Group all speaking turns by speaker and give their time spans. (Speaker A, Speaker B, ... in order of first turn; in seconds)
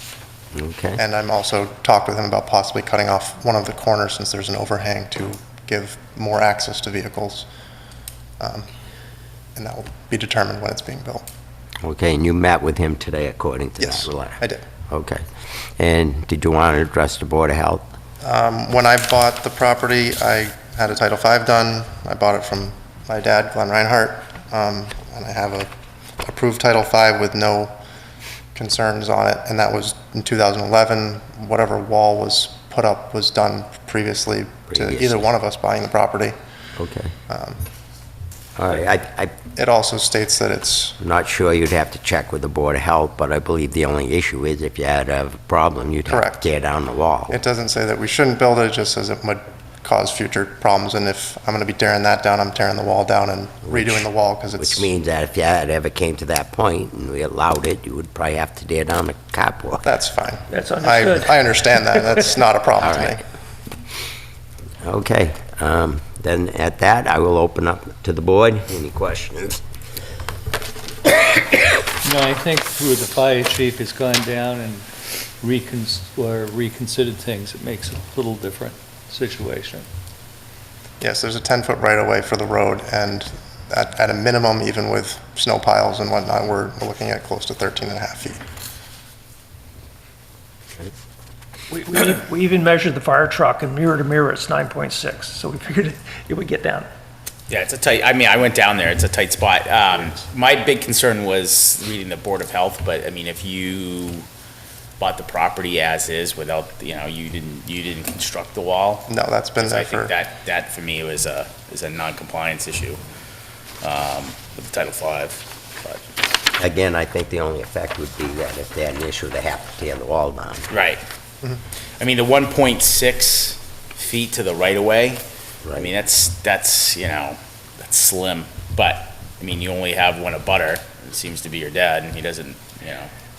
Speaker A: 0.5-1.0, 11.8-17.8, 34.7-35.2, 36.8-37.1, 38.5-39.3, 41.0-47.4, 53.7-54.0, 54.6-59.9, 62.8-63.2, 64.8-69.6, 116.6-120.7, 125.6-125.9
Speaker B: 1.0-7.5, 8.4-8.7, 9.6-11.2, 13.8-14.6, 18.2-25.7, 26.2-27.7, 28.5-36.4, 37.3-37.6, 39.5-41.0, 46.0-46.5, 47.3-54.9, 59.8-63.2, 81.0-88.4, 109.1-110.1
Speaker C: 60.5-62.2, 91.7-96.9
Speaker D: 72.0-74.8, 75.4-79.8
Speaker E: 97.5-104.2, 105.0-113.0, 113.8-116.0, 120.7-121.0, 122.0-133.1